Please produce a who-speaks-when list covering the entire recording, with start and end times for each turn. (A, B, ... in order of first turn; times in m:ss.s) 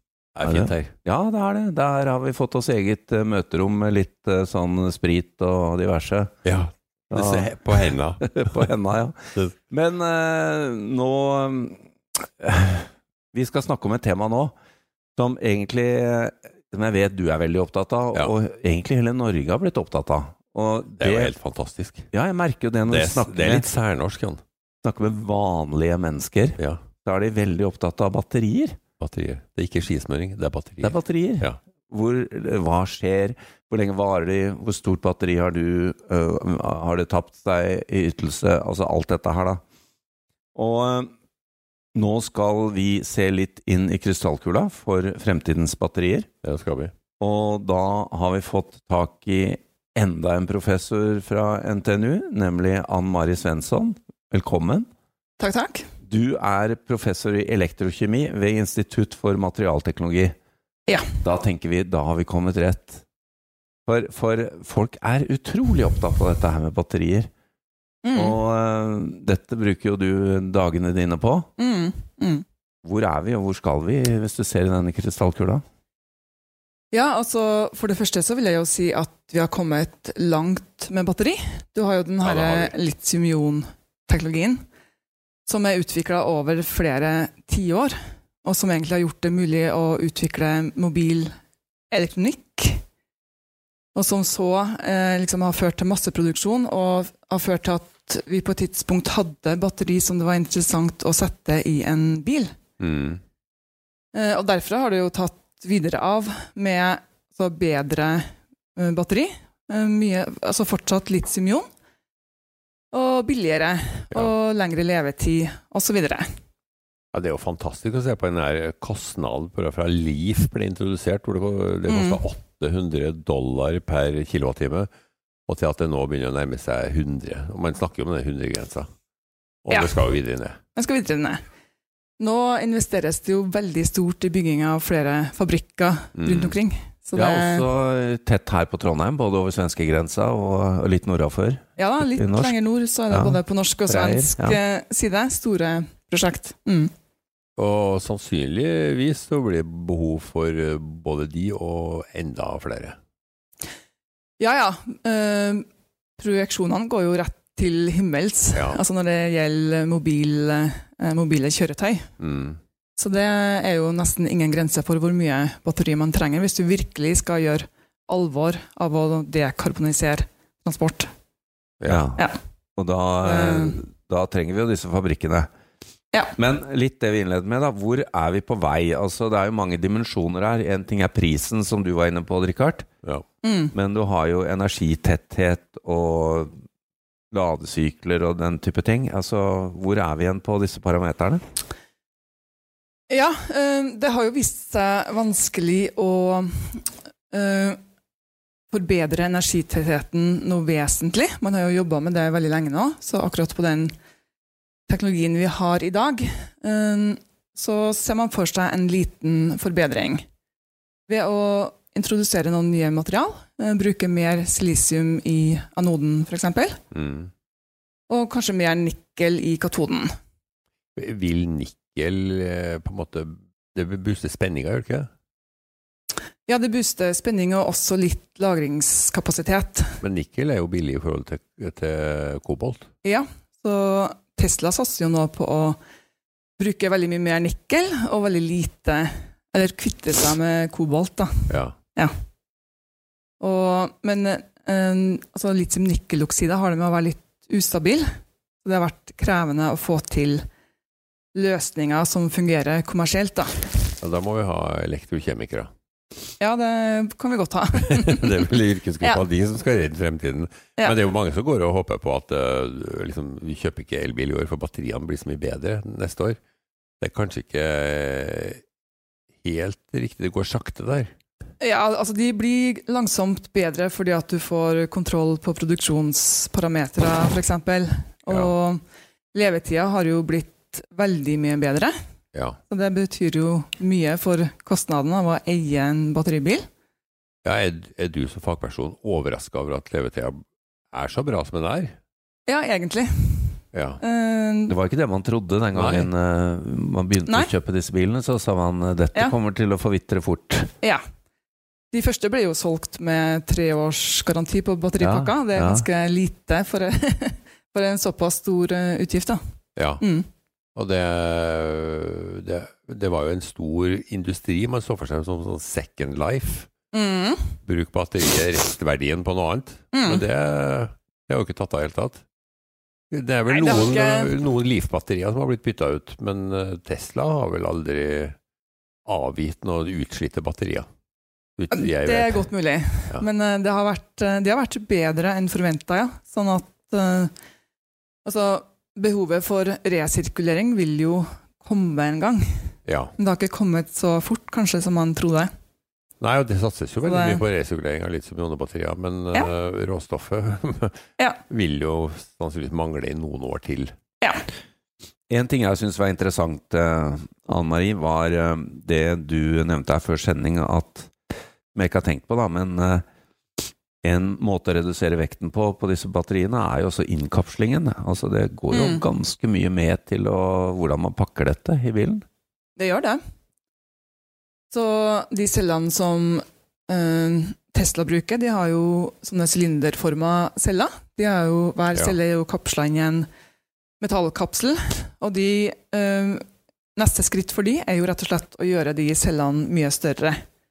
0:00.4-0:00.9 A
0:00.4-0:06.3 B
0:06.4-0:08.7 A
0:07.1-0:14.5 B
0:15.2-0:21.3 B
0:21.0-0:22.0 A
0:22.1-0:23.7 B
0:22.9-0:24.4 A
0:24.8-0:28.8 B
0:29.0-0:31.6 A
0:30.8-0:39.6 B
0:40.5-0:41.1 B
0:41.9-0:46.3 B
0:46.4-0:46.9 A
0:47.2-0:54.8 B
0:55.4-0:55.9 C
0:56.1-1:00.3 B
1:01.2-1:03.0 B
1:03.8-1:07.3 B
1:08.0-1:08.4 C
1:08.1-1:11.5 B
1:11.6-1:12.4 C
1:12.8-1:15.6 B
1:16.9-1:24.6 C
1:22.2-1:22.7 A
1:25.4-1:31.3 C
1:31.9-1:32.8 C
1:33.9-1:42.5 C
1:42.8-1:43.2 A
1:44.1-1:51.7 C
1:52.9-1:56.3 C
1:57.1-2:04.9 A
2:01.9-2:02.2 C
2:05.5-2:08.9 A
2:09.6-2:10.6 A
2:09.7-2:10.0 C
2:10.7-2:11.4 C
2:12.2-2:17.6 C
2:16.1-2:16.5 A
2:17.2-2:22.5 B
2:21.8-2:26.9 C
2:23.1-2:24.6 B
2:27.6-2:33.0 A
2:34.4-2:35.6 C
2:36.2-2:42.1 C
2:38.5-2:38.8 A
2:42.2-2:42.6 A
2:43.0-2:51.1 C
2:51.8-2:55.5 B
2:53.2-2:53.8 C
2:56.4-3:02.8 B
3:03.4-3:03.7 C
3:03.7-3:06.5 B
3:07.3-3:11.4 B
3:13.1-3:17.8 C
3:18.7-3:23.9 C
3:24.9-3:30.2 C
3:31.1-3:36.8 C
3:36.9-3:37.3 A
3:38.1-3:40.1 C
3:41.0-3:45.1 A
3:46.5-3:50.0 C
3:50.0-3:52.9 A
3:53.0-3:55.8 C
3:56.6-4:02.1 C
4:01.5-4:01.7 A
4:03.4-4:08.0 C
4:08.6-4:10.4 C
4:11.3-4:13.6 C
4:14.0-4:15.7 A
4:16.4-4:18.3 C
4:17.8-4:26.4 A
4:27.0-4:28.6 A
4:29.4-4:31.1 A
4:31.6-4:38.8 C
4:39.3-4:41.9 C
4:42.7-4:46.6 C
4:47.4-4:51.9 A
4:52.5-4:54.7 C
4:53.7-4:54.0 A
4:54.7-5:00.7 B
4:55.7-4:56.1 A
4:57.3-4:57.5 C
5:01.9-5:09.4 C
5:05.0-5:05.8 B
5:09.8-5:10.0 A
5:10.0-5:10.2 C
5:10.8-5:16.7 A
5:16.9-5:17.6 C
5:17.6-5:22.2 A
5:19.9-5:20.2 C
5:23.1-5:28.4 A
5:23.5-5:24.3 C
5:29.0-5:30.9 A
5:31.6-5:32.5 A
5:31.7-5:37.3 C
5:38.2-5:45.5 C
5:42.8-5:43.1 A
5:46.2-5:51.0 A
5:47.0-5:47.4 C
5:51.5-5:53.9 A
5:55.3-6:01.1 B
6:01.7-6:03.0 B
6:04.0-6:12.2 B
6:08.7-6:09.0 C
6:12.8-6:13.2 C
6:14.7-6:23.3 C
6:24.0-6:26.4 C
6:27.0-6:30.4 C